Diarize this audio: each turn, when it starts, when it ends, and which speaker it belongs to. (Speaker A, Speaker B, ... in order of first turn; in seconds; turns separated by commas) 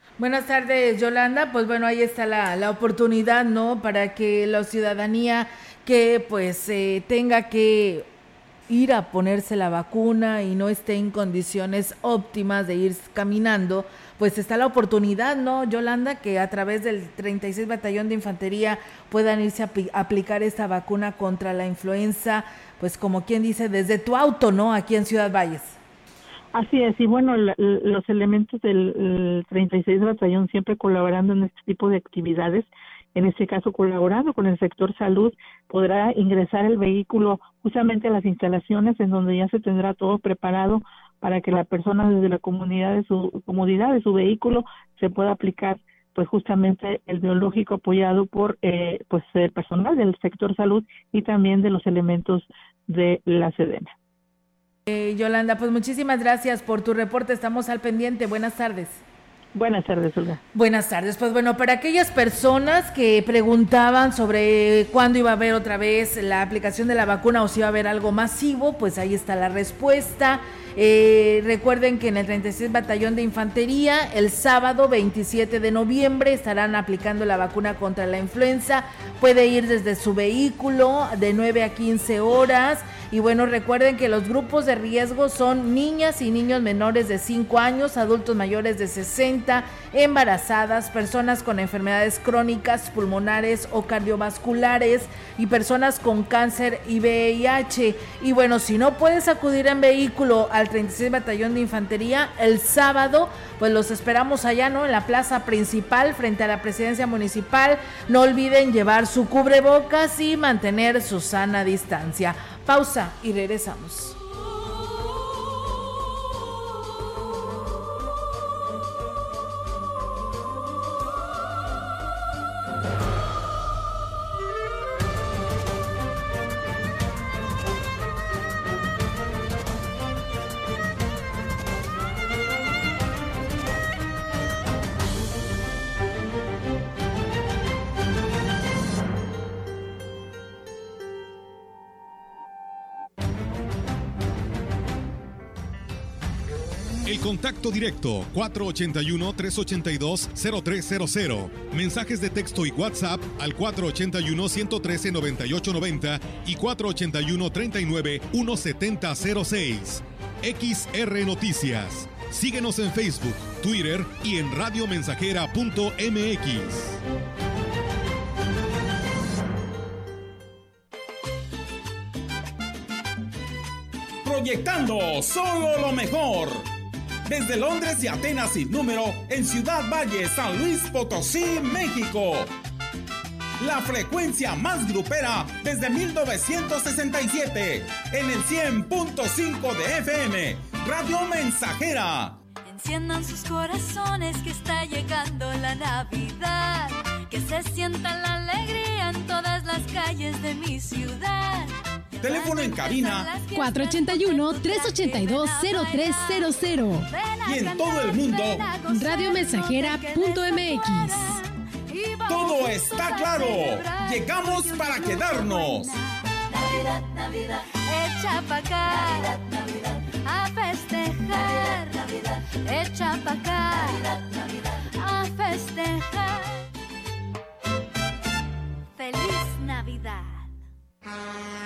Speaker A: 0.2-8.1, Speaker A: 8.7-25.8, Speaker B: 26.5-53.9, Speaker A: 54.9-59.0, Speaker B: 59.5-60.4, Speaker A: 60.5-114.2, Speaker C: 147.0-167.0, Speaker D: 174.2-176.7, Speaker D: 177.2-182.5, Speaker D: 183.6-192.4, Speaker E: 192.6-201.7, Speaker D: 202.2-203.3, Speaker E: 202.2-216.0, Speaker D: 207.4-208.7, Speaker D: 212.3-216.0, Speaker E: 217.3-219.4, Speaker E: 220.2-224.1, Speaker E: 225.0-226.6, Speaker E: 228.9-230.4